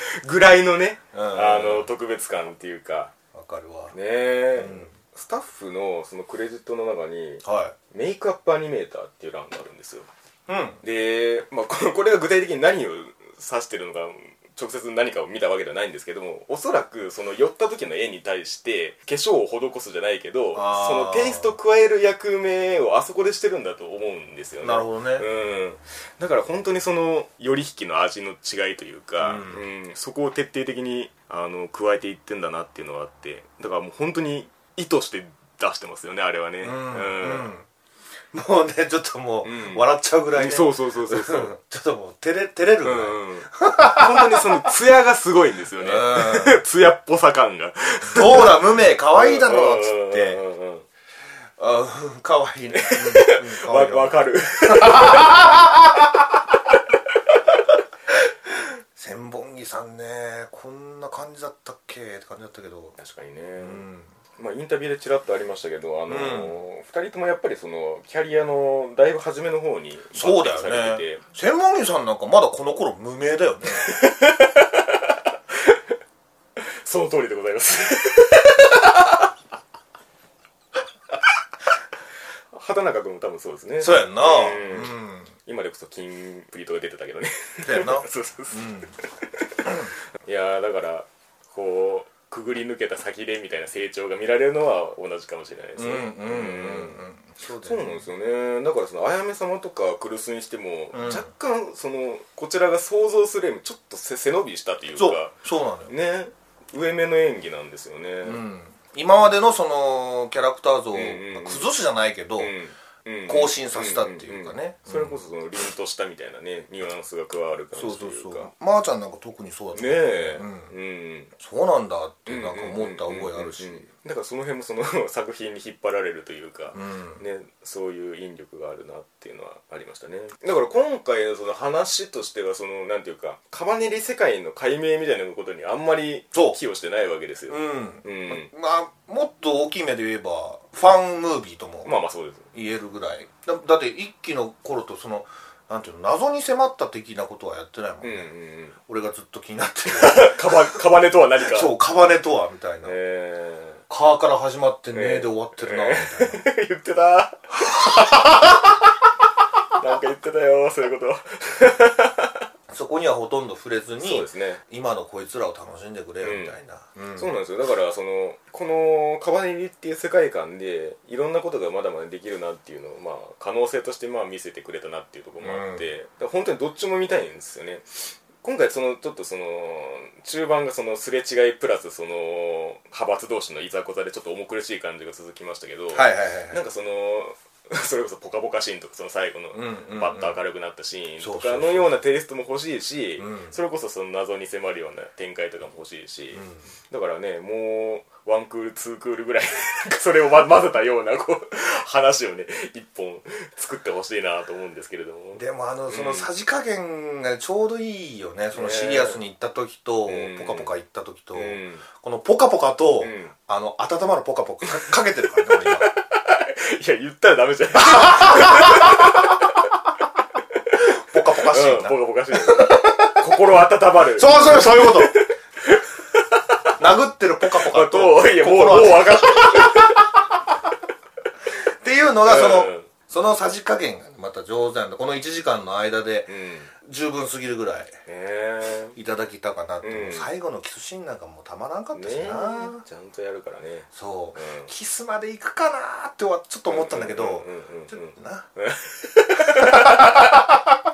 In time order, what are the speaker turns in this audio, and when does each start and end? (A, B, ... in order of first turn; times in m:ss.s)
0:00.2-0:03.1 A
0:01.1-0:01.9 B
0:03.3-0:03.9 B
0:03.9-0:10.1 A
0:04.5-0:04.9 B
0:07.4-0:07.8 B
0:10.5-0:10.8 B
0:10.8-0:37.5 A
0:20.5-0:21.6 B
0:24.6-0:25.2 B
0:29.2-0:29.6 B
0:36.6-0:37.7 B
0:38.3-0:44.7 B
0:39.4-0:41.5 A
0:42.8-0:48.6 A
0:45.8-0:46.6 B
0:48.1-0:50.4 B
0:49.1-0:50.9 A
0:51.6-0:56.0 B
0:52.7-0:55.6 A
0:59.0-1:03.0 B
1:03.0-1:03.8 A
1:03.6-1:04.1 B
1:04.4-1:11.2 A
1:06.1-1:06.6 B
1:10.1-1:13.9 B
1:13.7-1:15.8 A
1:16.6-1:19.3 A
1:22.5-1:37.0 A
1:23.8-1:25.3 B
1:27.6-1:28.9 B
1:29.6-1:29.9 B
1:35.8-1:38.0 B
1:37.6-1:45.4 A
1:40.9-1:41.3 B
1:45.0-1:45.9 B
1:45.9-1:48.4 A
1:48.2-1:52.5 B
1:50.9-1:51.7 A
1:52.4-1:58.5 A
1:53.3-1:55.2 B
1:57.7-2:00.7 B
1:59.8-2:01.3 A
2:01.4-2:03.8 B
2:02.3-2:18.5 A
2:06.7-2:07.2 B
2:16.3-2:16.6 B
2:17.5-2:21.9 B
2:21.8-2:22.5 A
2:22.5-2:28.3 B
2:28.0-2:28.8 A
2:28.9-2:30.6 B
2:29.9-2:31.7 A
2:31.4-2:33.0 B
2:32.8-2:33.8 A
2:33.9-2:36.4 B
2:34.9-2:38.7 A
2:37.6-2:38.6 B
2:39.8-2:42.5 A
2:42.7-2:47.3 B
2:44.0-2:44.6 A
2:46.2-2:46.6 A
2:47.2-3:26.3 A
2:55.4-2:55.8 B
3:05.9-3:06.6 B
3:09.5-3:10.4 B
3:11.2-3:12.0 B
3:13.2-3:13.6 B
3:16.4-3:16.6 B
3:25.4-3:35.9 B
3:28.5-3:29.2 A
3:30.1-3:30.7 A
3:31.4-3:31.8 A
3:33.0-3:33.3 A
3:35.5-3:39.7 A
3:37.8-3:39.4 B
3:40.7-3:43.2 B
3:41.3-3:46.7 A
3:44.2-3:45.2 B
3:46.8-3:50.0 B
3:47.4-3:50.0 A
3:51.8-3:57.9 B
3:52.2-3:52.9 A
3:56.3-3:56.7 A
3:58.1-3:59.0 A
3:59.0-4:02.8 B
3:59.8-4:00.3 A
4:01.9-4:04.7 A
4:03.9-4:08.5 B
4:06.7-4:10.4 A
4:09.4-4:10.6 B